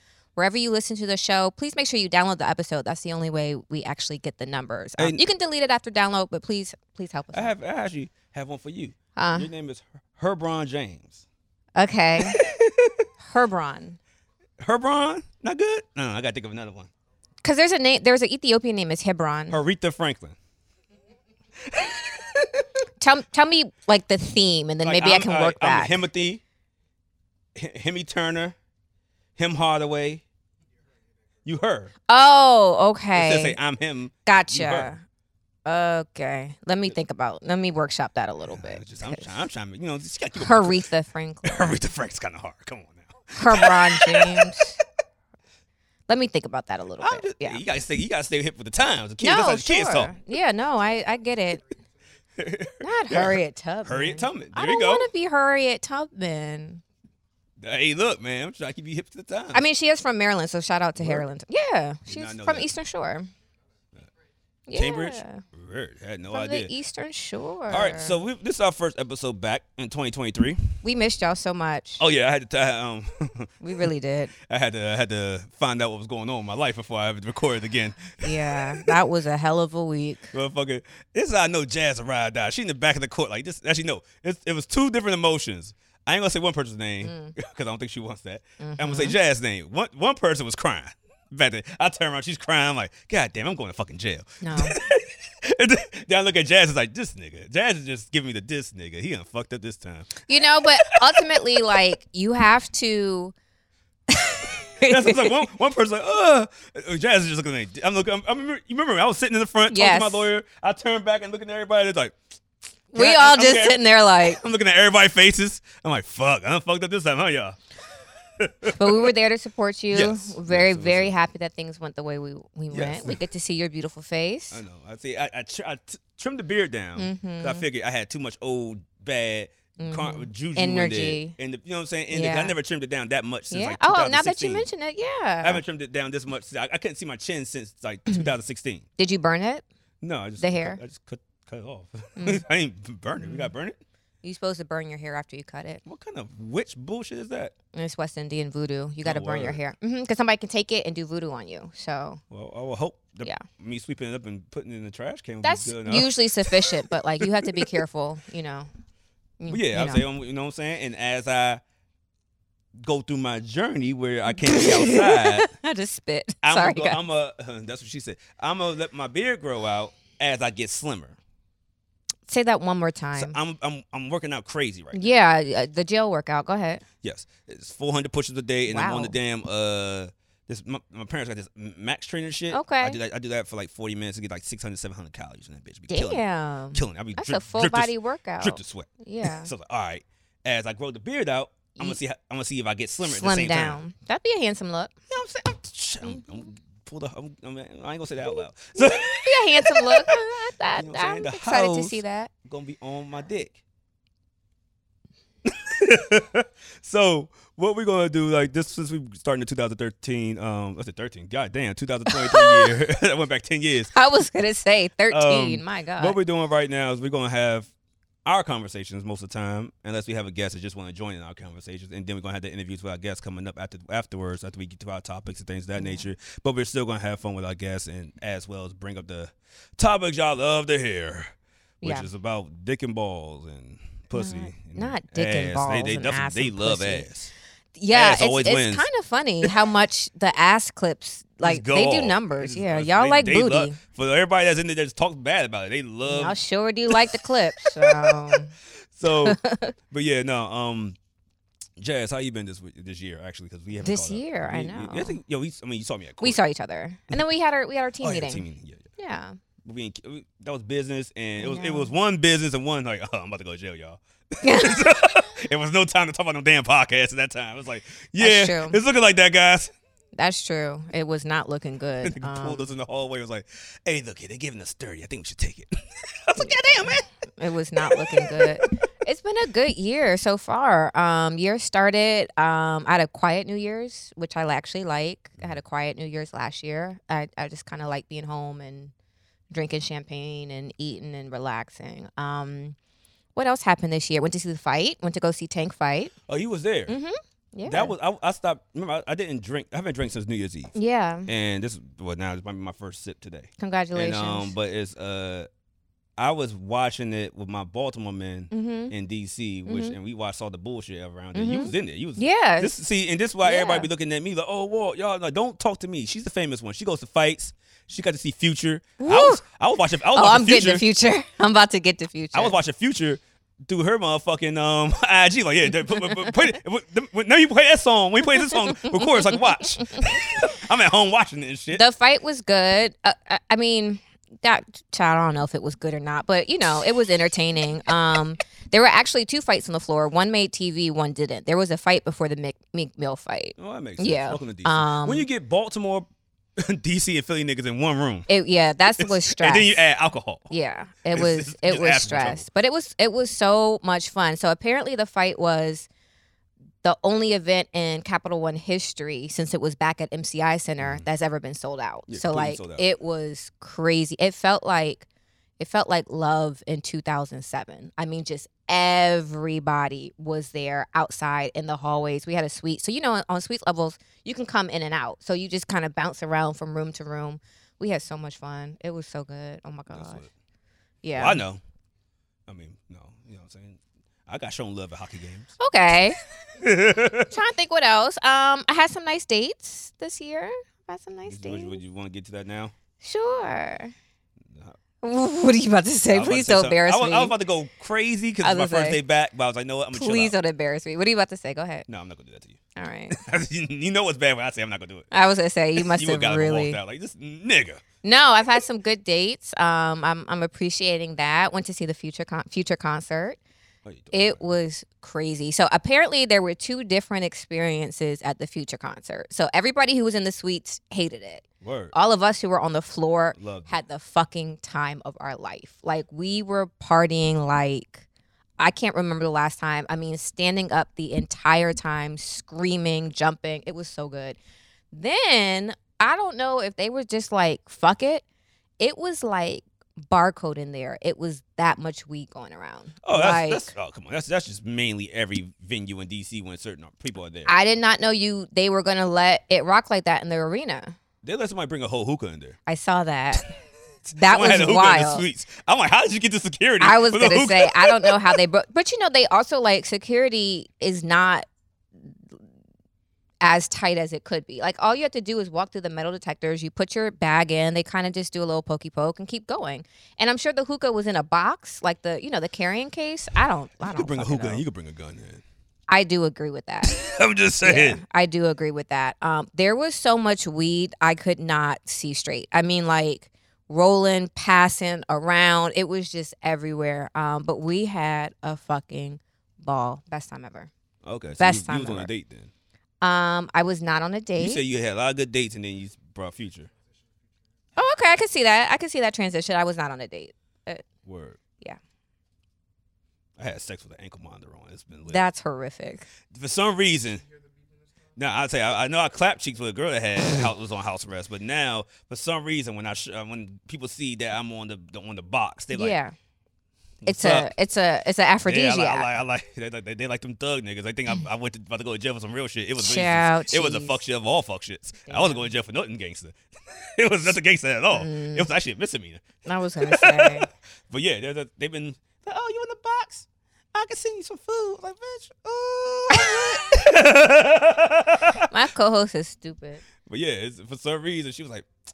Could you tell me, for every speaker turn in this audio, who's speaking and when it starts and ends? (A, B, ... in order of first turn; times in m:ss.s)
0:00.4-0:07.5 A
0:07.3-0:11.2 B
0:09.2-0:09.5 A
0:11.8-0:12.4 A
0:12.2-0:13.0 B
0:13.2-0:14.0 A
0:14.6-0:16.9 B
0:17.4-0:19.6 A
0:19.5-0:20.4 B
0:21.6-0:22.6 B
0:23.0-0:26.0 A
0:24.8-0:26.4 B
0:27.5-0:28.6 B
0:29.4-0:30.2 B
0:31.4-0:31.9 B
0:32.1-0:33.6 A
0:33.1-0:34.9 B
0:34.3-0:35.0 A
0:35.6-0:39.3 A
0:38.5-0:40.9 B
0:40.4-0:41.7 A
0:41.4-0:44.6 B
0:43.3-0:44.8 A
0:46.1-0:47.6 A
0:47.0-0:50.1 B
0:49.2-0:51.6 A
0:52.4-0:55.1 B
0:52.8-0:56.8 A
0:57.6-0:59.6 B
0:59.5-1:03.3 A
1:01.0-1:01.3 B
1:02.1-1:02.7 B
1:04.7-1:05.4 A
1:04.7-1:06.7 B
1:06.3-1:08.2 A
1:07.7-1:10.8 B
1:10.8-1:12.0 A
1:12.0-1:13.5 B
1:13.6-1:14.3 A
1:14.4-1:18.9 B
1:18.2-1:20.3 A
1:20.3-1:40.2 B
1:27.0-1:27.4 A
1:28.6-1:29.2 A
1:34.4-1:34.8 A
1:40.2-1:43.3 A
1:40.8-1:41.6 B
1:44.1-1:45.4 A
1:44.8-1:52.2 B
1:49.7-1:50.3 A
1:52.9-1:54.4 A
1:52.9-1:57.6 B
1:58.4-1:59.1 B
1:58.6-2:04.6 A
1:59.9-2:01.1 B
2:02.7-2:03.2 B
2:04.5-2:14.7 B
2:07.0-2:07.6 A
2:09.8-2:11.3 A
2:12.1-2:12.5 A
2:13.5-2:15.6 A
2:15.4-2:18.8 B
2:19.0-2:19.6 A
2:20.0-2:23.8 B
2:20.4-2:20.8 A
2:22.2-2:22.4 A
2:23.2-2:23.5 A
2:24.2-2:25.8 A
2:25.8-2:27.5 B
2:27.7-2:32.2 A
2:29.0-2:29.6 B
2:32.3-2:37.8 B
2:35.4-2:38.7 A
2:39.4-2:40.0 A
2:39.5-2:41.6 B
2:42.8-2:45.5 B
2:44.4-2:47.0 A
2:46.4-2:51.2 B
2:52.3-2:53.4 A
2:53.2-2:55.1 B
2:54.9-2:56.8 A
2:57.0-3:06.2 B
2:58.7-2:59.1 A
3:02.5-3:03.0 A
3:05.9-3:09.5 A
3:06.7-3:13.8 B
3:13.0-3:14.9 A
3:15.1-3:20.1 B
3:18.7-3:22.3 A
3:20.7-3:23.6 B
3:25.4-3:33.9 B
3:32.1-3:32.8 A
3:33.9-3:36.2 A
3:35.1-3:37.7 B
3:38.2-3:57.3 B
3:45.8-3:46.0 A
3:51.8-3:52.1 A
3:54.1-3:57.1 A
3:57.8-4:03.8 A
3:57.9-3:58.9 B
4:01.4-4:06.4 B
4:06.0-4:08.5 A
4:06.9-4:08.4 B
4:08.9-4:09.4 B
4:09.0-4:09.7 A
4:09.9-4:11.0 B
4:11.8-4:16.4 B
4:13.8-4:15.2 A
4:16.2-4:18.4 A
4:18.0-4:18.9 B
4:19.0-4:19.4 A
4:19.6-4:29.7 B
4:21.4-4:21.9 A
4:24.4-4:24.9 A
4:28.2-4:28.8 A
4:30.2-4:32.7 A
4:32.0-4:37.1 B
4:37.4-4:48.9 A
4:37.8-4:38.7 B
4:49.5-4:52.8 A
4:53.3-4:56.1 A
4:56.3-4:56.9 B
4:56.9-4:57.9 A
4:57.7-5:00.7 B
5:00.7-5:01.3 A
5:01.3-5:05.5 B
5:03.6-5:04.5 A
5:06.2-5:20.8 B
5:08.5-5:08.9 A
5:09.6-5:10.0 A
5:11.3-5:12.7 A
5:13.4-5:13.9 A
5:19.0-5:19.4 A
5:20.1-5:22.5 A
5:22.3-5:31.8 B
5:28.4-5:30.0 A
5:31.7-5:45.2 A
5:43.6-5:46.0 B
5:46.6-5:48.3 B
5:48.3-5:49.8 A
5:48.9-5:50.5 B
5:50.5-5:55.9 A
5:51.1-5:52.4 B
5:56.8-6:05.0 A
6:00.8-6:01.0 B
6:02.1-6:02.8 B
6:05.6-6:20.2 A
6:19.9-6:20.3 B
6:21.0-6:21.4 A
6:21.2-6:21.6 B
6:22.5-6:25.5 B
6:25.6-6:26.2 A
6:26.6-6:27.3 B
6:27.3-6:31.8 A
6:31.3-6:32.7 B
6:33.0-6:33.9 A
6:34.4-6:34.8 B
6:35.0-6:37.4 A
6:36.1-6:40.3 B
6:38.4-6:39.0 A
6:39.9-6:41.9 A
6:41.9-6:45.1 B
6:42.7-6:43.2 A
6:45.1-6:46.8 A
6:45.8-6:47.8 B
6:48.0-6:53.4 A
6:53.8-6:54.4 B
6:54.1-7:08.0 A
7:01.6-7:01.9 B
7:03.4-7:03.7 B
7:08.6-7:14.4 A
7:14.9-7:18.2 A
7:18.8-7:23.7 A
7:23.0-7:27.5 B
7:27.4-7:30.9 A
7:31.2-7:32.6 B
7:32.7-7:33.5 A
7:34.0-7:38.4 B
7:34.1-7:35.2 A
7:36.8-7:41.5 A
7:42.1-7:42.4 A
7:43.4-7:54.6 A
7:53.8-7:55.4 B
7:55.9-7:57.0 A
7:56.8-7:58.0 B
7:57.6-8:10.7 A
8:11.0-8:12.5 B
8:11.4-8:12.1 A
8:13.0-8:14.6 A
8:14.4-8:16.7 B
8:17.8-8:20.8 A
8:21.0-8:21.4 B
8:23.4-8:25.2 B
8:25.1-8:26.1 A
8:26.3-8:27.2 B
8:28.2-8:36.0 B
8:35.7-8:36.1 A
8:37.0-8:37.5 B
8:37.0-8:39.1 A
8:38.4-8:49.2 B
8:42.8-8:44.0 A
8:45.1-8:45.5 A
8:47.9-8:48.5 A
8:49.4-8:50.5 A
8:49.8-8:58.5 B
8:56.1-8:56.6 A
8:58.4-8:59.8 A
9:00.0-9:01.7 B